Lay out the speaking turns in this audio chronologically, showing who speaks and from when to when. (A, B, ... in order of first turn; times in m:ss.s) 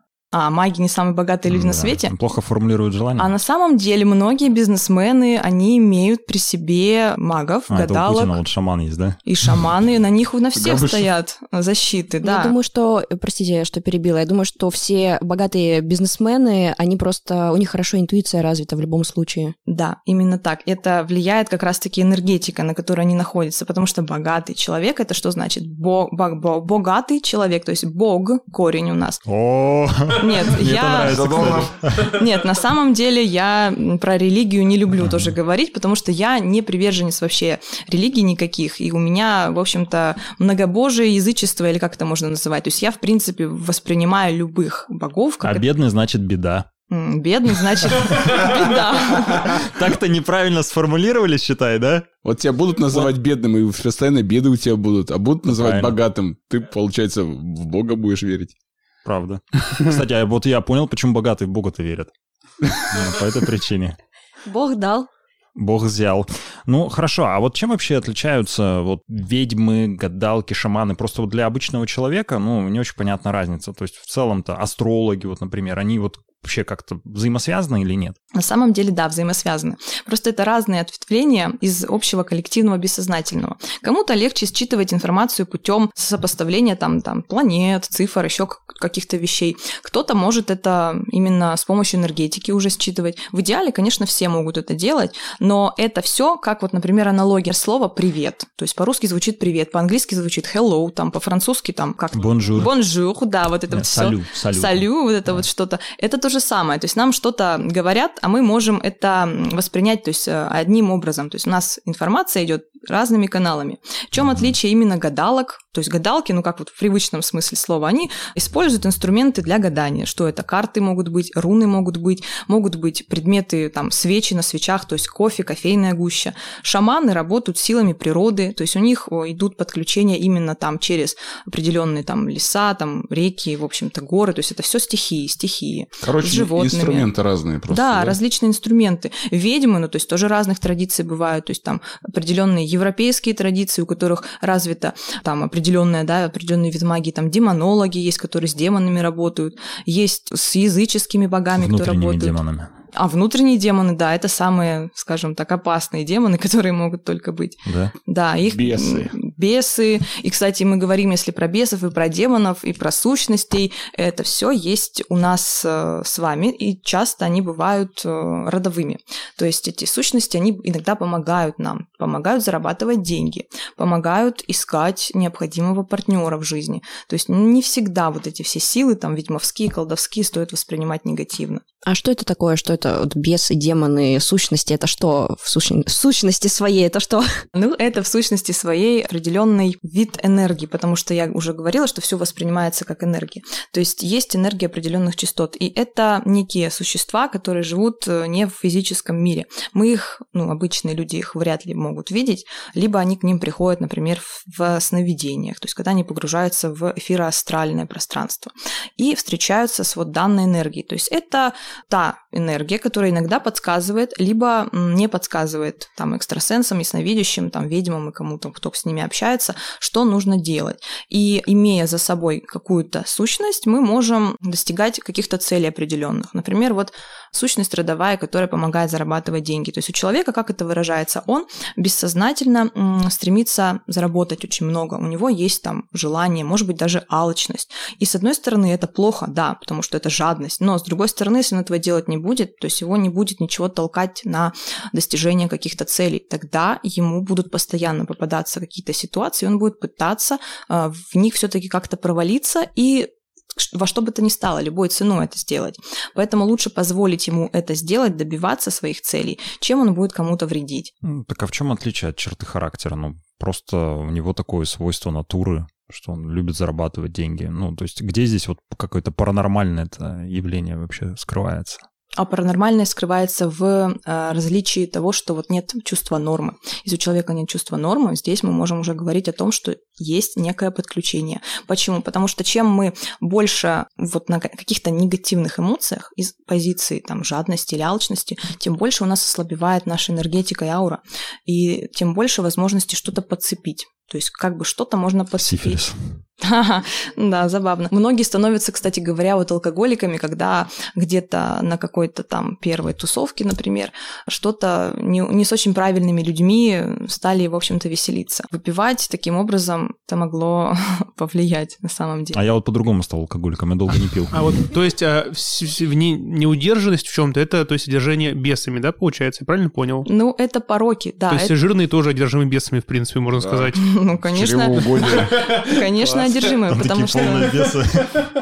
0:00.3-0:02.1 A
0:01.5-0:03.3 B
0:03.2-0:08.4 A
0:07.7-0:09.2 B
0:09.2-0:12.5 A
0:10.5-0:11.1 C
0:12.2-0:19.5 D
0:19.7-0:29.2 A
0:29.2-0:32.2 B
0:30.1-0:45.7 A
0:30.7-0:31.8 C
0:35.0-0:35.3 B
0:45.4-0:46.7 B
0:46.9-0:49.7 A
0:47.8-0:52.1 B
0:52.2-0:58.5 C
0:55.5-0:56.0 B
0:59.0-1:02.1 B
1:02.7-1:04.0 B
1:04.4-1:05.1 D
1:05.6-1:18.2 B
1:18.3-2:17.1 A
1:42.1-1:42.7 B
1:43.7-1:45.4 B
1:54.2-1:54.5 B
2:16.0-2:18.2 C
2:17.7-2:32.4 A
2:31.5-2:32.7 B
2:32.9-3:01.6 A
2:37.6-2:37.9 B
2:38.4-2:39.2 C
3:01.8-3:07.2 D
3:07.5-4:20.9 A
4:21.0-4:31.8 B
4:32.1-4:55.8 A
4:55.4-4:56.2 B
4:56.4-5:12.4 A
5:12.3-5:14.4 B
5:14.3-5:20.0 E
5:20.0-5:21.5 A
5:21.3-5:23.8 E
5:23.4-5:25.4 C
5:23.7-5:27.6 A
5:26.7-5:28.2 B